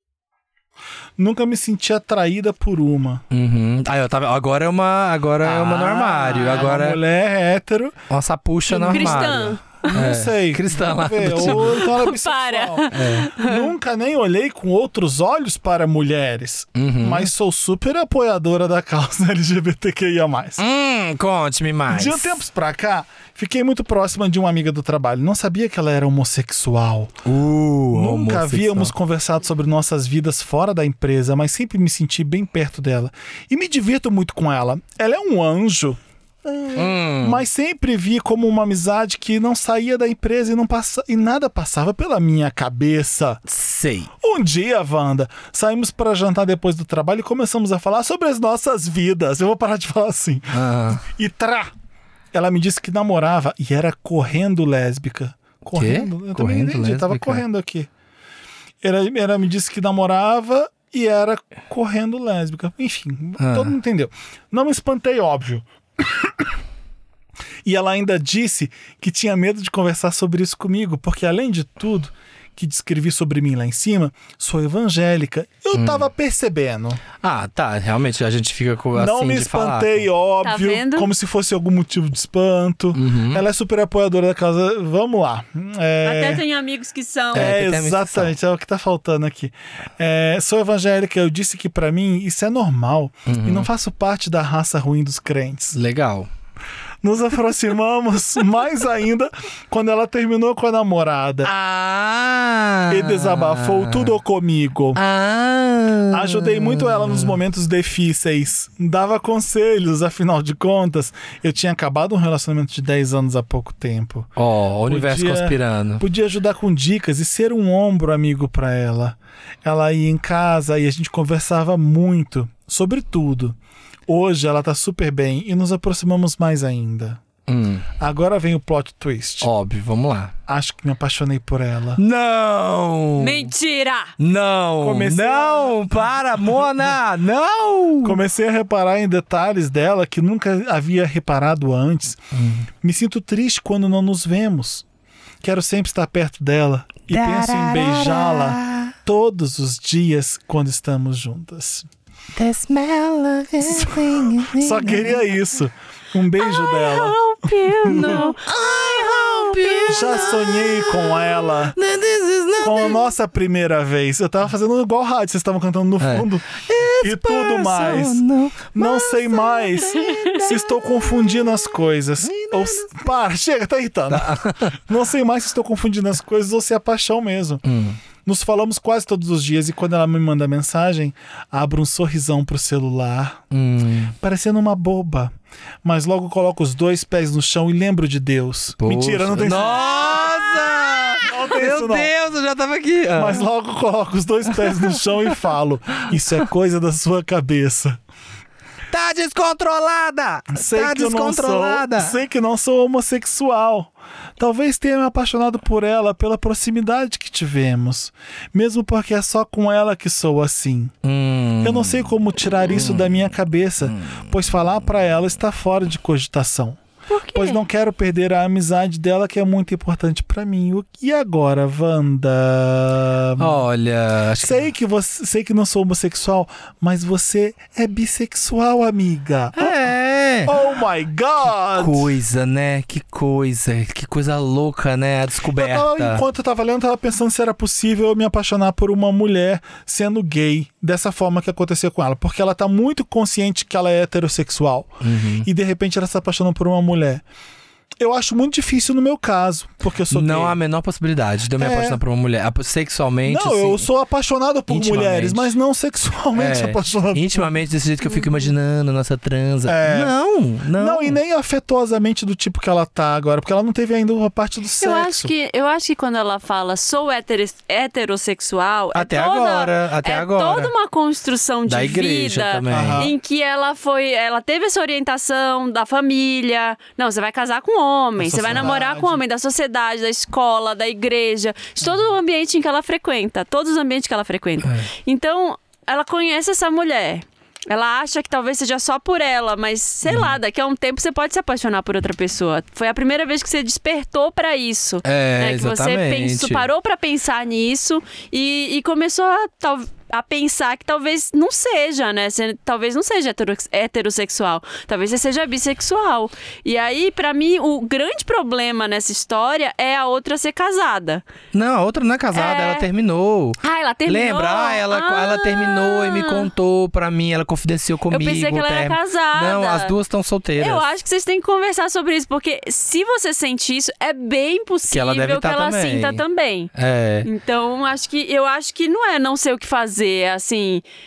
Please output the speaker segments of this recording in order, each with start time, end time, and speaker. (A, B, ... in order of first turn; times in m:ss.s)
0:01.2-0:03.2 A
0:03.3-0:07.0 B
0:05.4-0:08.0 A
0:08.1-0:11.9 B
0:08.7-0:20.6 A
0:08.7-0:09.9 C
0:11.4-0:13.7 C
0:12.9-0:13.3 B
0:16.8-0:17.3 B
0:20.6-0:22.4 B
0:21.9-0:27.2 A
0:27.2-0:28.9 B
0:27.9-0:43.4 A
0:36.8-0:37.4 B
0:43.5-0:44.1 B
0:44.2-0:51.7 A
0:50.5-0:51.0 B
0:52.3-0:57.9 A
0:55.8-0:57.4 B
0:58.8-1:06.5 A
1:03.4-1:03.7 B
1:07.7-1:17.0 A
1:15.7-1:16.0 B
1:17.2-1:20.0 B
1:18.9-1:26.4 A
1:20.4-1:21.1 C
1:23.0-1:23.4 B
1:26.0-1:27.6 C
1:27.3-1:28.3 B
1:27.3-1:35.8 A
1:33.3-1:33.7 B
1:35.7-1:36.3 B
1:37.0-1:41.5 A
1:41.4-1:44.1 B
1:42.9-1:45.0 A
1:45.0-1:47.4 B
1:46.1-1:54.3 A
1:54.4-1:56.0 B
1:54.9-2:07.2 A
2:07.5-2:07.9 B
2:08.0-2:09.5 A
2:09.4-2:10.3 B
2:10.5-2:12.0 A
2:12.0-2:13.5 B
2:13.2-2:14.2 C
2:14.2-2:18.2 B
2:14.8-2:16.7 A
2:18.0-2:22.2 A
2:22.3-2:22.7 B
2:22.8-2:24.8 A
2:25.4-2:31.9 A
2:27.1-2:28.9 B
2:32.4-2:35.2 B
2:33.6-2:38.2 A
2:36.4-2:40.6 C
2:37.9-2:41.0 B
2:39.9-2:41.8 A
2:41.8-2:43.0 B
2:42.6-2:57.6 A
2:46.0-2:51.2 B
2:49.8-2:50.4 C
2:52.2-2:53.1 B
2:54.1-2:54.7 B
2:57.6-2:58.0 B
2:58.2-3:03.4 A
3:03.5-3:04.1 B
3:04.2-3:10.3 A
3:08.8-3:13.4 B
3:11.2-3:12.1 A
3:13.1-3:18.0 A
3:14.7-3:15.0 B
3:18.9-3:22.2 B
3:20.5-3:31.0 A
3:31.0-3:33.3 B
3:31.6-3:36.8 A
3:33.9-3:34.2 B
3:37.1-3:37.6 C
3:37.3-3:43.6 A
3:43.4-3:44.6 B
3:44.4-3:49.7 A
3:49.6-3:50.6 B
3:50.5-3:52.2 A
3:51.7-3:56.2 B
3:55.5-4:07.2 A
4:05.0-4:05.5 B
4:08.0-4:10.6 A
4:10.1-4:13.8 B
4:11.6-4:12.0 A
4:13.2-4:17.6 A
4:14.7-4:15.5 B
4:16.4-4:21.2 B
4:18.0-4:18.5 C
4:19.6-4:20.2 A
4:20.7-4:25.3 A
4:24.8-5:11.2 C
4:29.0-4:30.7 B
4:31.7-4:33.1 B
4:32.7-4:33.1 A
4:38.2-4:39.2 A
4:44.6-4:44.9 B
4:50.1-4:50.4 B
4:55.0-4:56.7 B
5:11.5-5:20.9 B
5:12.3-5:12.9 C
5:13.6-5:16.5 C
5:18.1-5:20.0 C
5:20.6-5:26.7 C
5:24.9-5:26.2 B
5:26.8-5:27.3 B
5:27.2-5:30.8 C